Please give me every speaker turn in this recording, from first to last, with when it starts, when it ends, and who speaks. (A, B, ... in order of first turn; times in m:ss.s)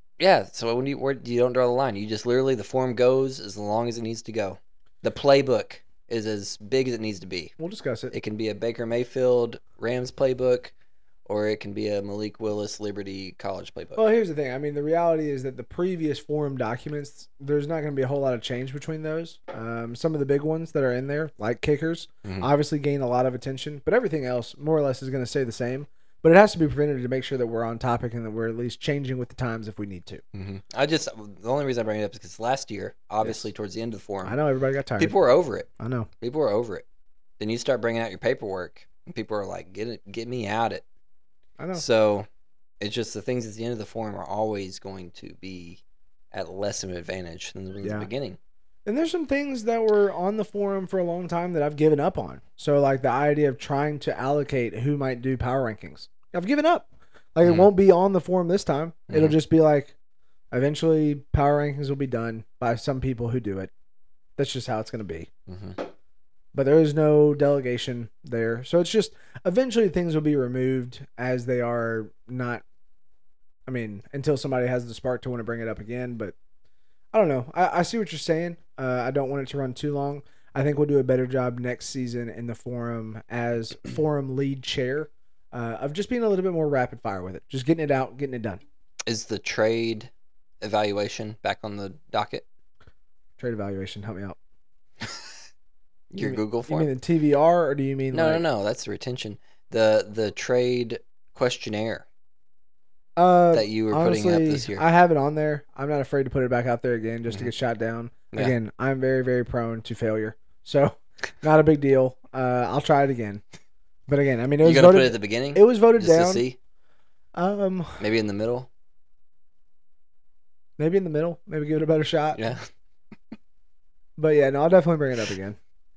0:00.2-0:07.5 A
0:07.6-0:08.2 B
0:08.1-0:10.7 A
0:11.3-0:14.0 A
0:14.0-0:30.2 B
0:22.2-0:22.5 A
0:30.3-0:34.4 A
0:34.2-0:35.2 B
0:35.0-0:35.7 A
0:35.8-0:36.1 B
0:36.2-0:36.8 A
0:37.4-0:40.8 A
0:41.6-0:41.8 B
0:41.7-0:42.3 A
0:42.8-0:45.8 A
0:46.3-0:48.4 A
0:47.8-0:48.1 B
0:48.9-0:59.9 B
0:57.4-0:57.7 A
0:59.1-0:59.4 A
1:00.5-1:03.7 B
1:04.4-1:05.3 B
1:05.5-1:05.8 A
1:06.5-1:12.6 B
1:13.7-1:16.4 B
1:17.1-1:28.6 B
1:29.1-1:32.4 A
1:33.4-1:34.4 B
1:36.1-1:36.9 A
1:36.2-1:38.4 B
1:38.1-1:42.0 A
1:43.2-1:53.4 B
1:43.5-1:44.8 A
1:54.1-1:56.4 B
1:54.6-1:56.6 A
1:57.4-1:58.0 B
1:58.0-1:58.7 A
2:00.8-2:02.4 B
2:02.4-2:02.7 A
2:04.2-2:05.6 B